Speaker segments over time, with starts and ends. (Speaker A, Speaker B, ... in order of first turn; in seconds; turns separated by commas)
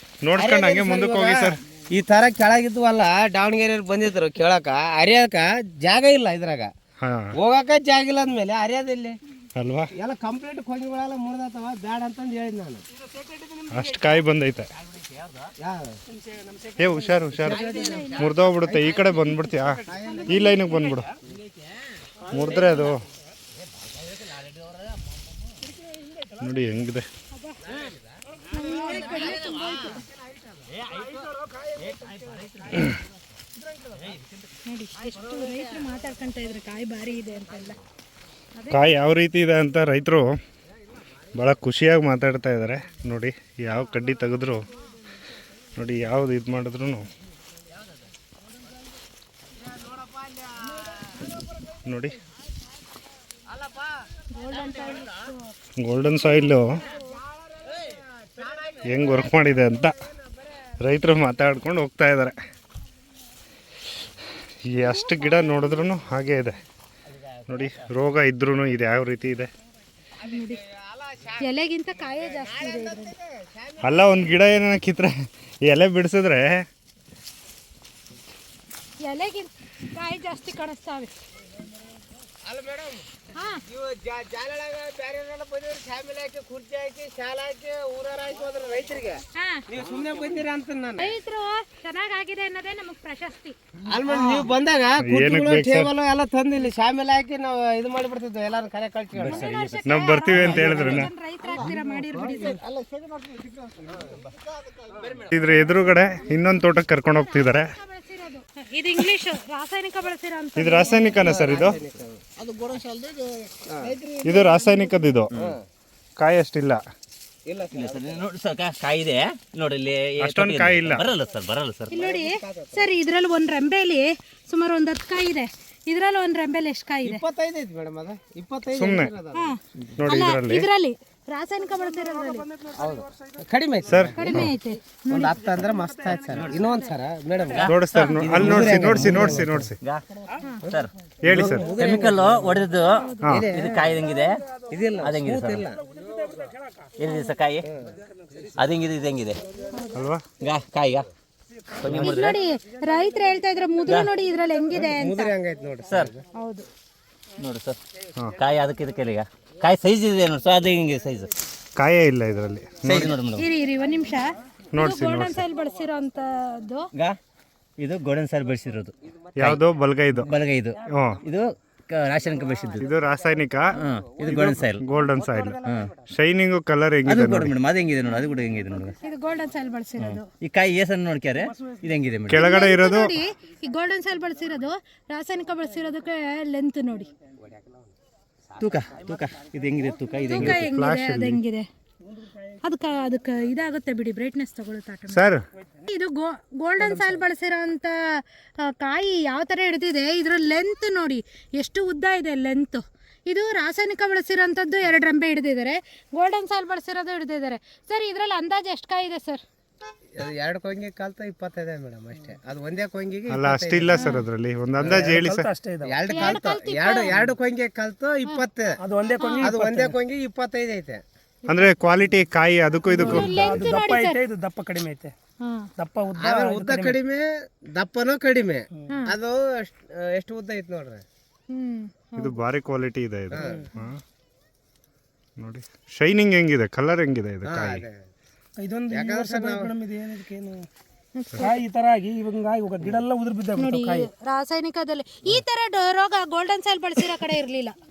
Speaker A: 0.2-1.6, Speaker B: 0.3-6.7, Speaker A: 7.0-7.3, Speaker B: 7.3-9.2, Speaker A: 9.6-9.9, Speaker B: 9.9-12.8, Speaker C: 13.6-14.2, Speaker A: 13.7-14.7, Speaker C: 14.8-15.5, Speaker B: 15.6-16.0, Speaker D: 16.1-17.2, Speaker A: 16.8-21.1, Speaker B: 17.4-19.1, Speaker E: 17.5-18.2, Speaker C: 17.8-19.2, Speaker B: 19.9-20.6, Speaker E: 20.0-21.0, Speaker A: 22.3-23.0, Speaker C: 22.4-22.9, Speaker C: 24.0-25.2, Speaker A: 26.4-27.1, Speaker E: 27.3-27.6, Speaker B: 27.7-28.0, Speaker E: 28.5-30.0, Speaker C: 28.7-29.8, Speaker B: 28.9-29.5, Speaker C: 30.7-31.3, Speaker D: 31.4-31.7, Speaker C: 31.8-32.9, Speaker E: 34.6-37.8, Speaker E: 38.5-38.9, Speaker A: 38.7-40.4, Speaker A: 41.3-44.6, Speaker A: 45.8-47.1, Speaker B: 49.7-51.1, Speaker A: 51.9-52.2, Speaker B: 53.5-55.0, Speaker E: 54.3-55.5, Speaker A: 55.8-56.8, Speaker B: 57.0-59.3, Speaker A: 58.8-60.0, Speaker A: 60.8-62.4, Speaker A: 64.7-66.6, Speaker E: 64.8-65.9, Speaker A: 67.5-69.5, Speaker B: 70.2-74.3, Speaker E: 70.2-70.6, Speaker E: 71.4-73.1, Speaker A: 73.8-76.7, Speaker E: 79.0-81.1, Speaker B: 82.4-83.1, Speaker E: 83.3-83.6, Speaker B: 83.6-91.2, Speaker E: 89.3-89.7, Speaker E: 91.0-93.5, Speaker B: 93.9-99.5, Speaker F: 93.9-94.5, Speaker A: 95.0-95.9, Speaker C: 99.1-101.1, Speaker E: 99.2-102.6, Speaker A: 99.8-101.1, Speaker F: 101.4-105.1, Speaker A: 105.3-107.7, Speaker E: 107.1-111.5, Speaker A: 110.6-111.8, Speaker B: 111.1-112.2, Speaker F: 112.4-114.8, Speaker B: 113.7-113.9, Speaker A: 114.2-115.3, Speaker C: 115.3-115.6, Speaker B: 115.3-115.6, Speaker A: 116.2-116.8, Speaker B: 117.4-118.2, Speaker C: 117.7-121.9, Speaker A: 120.2-121.1, Speaker E: 121.9-127.2, Speaker B: 121.9-122.9, Speaker B: 127.0-129.5, Speaker A: 128.7-129.1, Speaker E: 129.3-132.5, Speaker A: 130.0-130.7, Speaker D: 131.9-133.3, Speaker B: 132.7-134.5, Speaker A: 133.9-134.5, Speaker E: 134.2-135.6, Speaker B: 135.1-139.7, Speaker D: 135.2-136.7, Speaker C: 136.3-136.6, Speaker E: 136.6-136.9, Speaker C: 137.5-140.0, Speaker A: 137.6-139.8, Speaker E: 137.9-138.2, Speaker B: 140.7-142.5, Speaker C: 140.7-144.4, Speaker A: 141.2-141.8, Speaker E: 143.0-143.4, Speaker B: 143.3-144.0, Speaker B: 144.7-145.8, Speaker C: 145.0-145.7, Speaker D: 145.9-146.9, Speaker C: 147.0-147.7, Speaker B: 147.6-148.0, Speaker C: 148.5-149.4, Speaker A: 149.9-150.2, Speaker C: 150.4-151.1, Speaker C: 151.8-152.4, Speaker E: 151.9-155.3, Speaker B: 154.7-156.2, Speaker C: 155.8-156.1, Speaker E: 156.3-156.7, Speaker C: 157.4-157.8, Speaker C: 158.3-161.3, Speaker A: 161.8-163.2, Speaker C: 162.8-163.4, Speaker E: 163.4-166.9, Speaker A: 164.7-165.4, Speaker C: 167.8-169.6, Speaker A: 169.4-170.3, Speaker C: 170.1-172.9, Speaker A: 170.9-171.2, Speaker A: 172.8-177.5, Speaker C: 173.7-174.8, Speaker C: 175.6-175.9, Speaker C: 177.0-178.9, Speaker E: 179.0-180.2, Speaker C: 180.0-182.4, Speaker A: 182.3-183.1, Speaker E: 182.3-187.1, Speaker C: 188.6-190.7, Speaker E: 190.2-191.7, Speaker A: 190.3-191.4, Speaker E: 192.6-195.2, Speaker A: 195.1-195.4, Speaker E: 195.8-209.4, Speaker B: 210.2-214.0, Speaker A: 213.3-215.5, Speaker E: 213.9-214.2, Speaker B: 214.8-215.2, Speaker D: 214.9-216.1, Speaker B: 215.8-218.8, Speaker E: 216.1-217.1, Speaker D: 218.8-219.9, Speaker E: 219.2-219.5, Speaker B: 219.4-221.0, Speaker E: 221.4-221.7, Speaker A: 221.5-223.7, Speaker E: 222.9-224.2, Speaker D: 222.9-225.1, Speaker E: 225.4-225.7, Speaker D: 225.8-227.0, Speaker B: 226.1-231.0, Speaker E: 228.9-229.1, Speaker E: 231.5-232.4, Speaker A: 232.2-234.0, Speaker B: 233.3-233.6, Speaker A: 235.4-237.8, Speaker B: 237.4-238.1, Speaker D: 238.6-240.7, Speaker B: 238.9-239.7, Speaker E: 241.2-241.6, Speaker D: 241.4-244.1, Speaker E: 243.5-247.7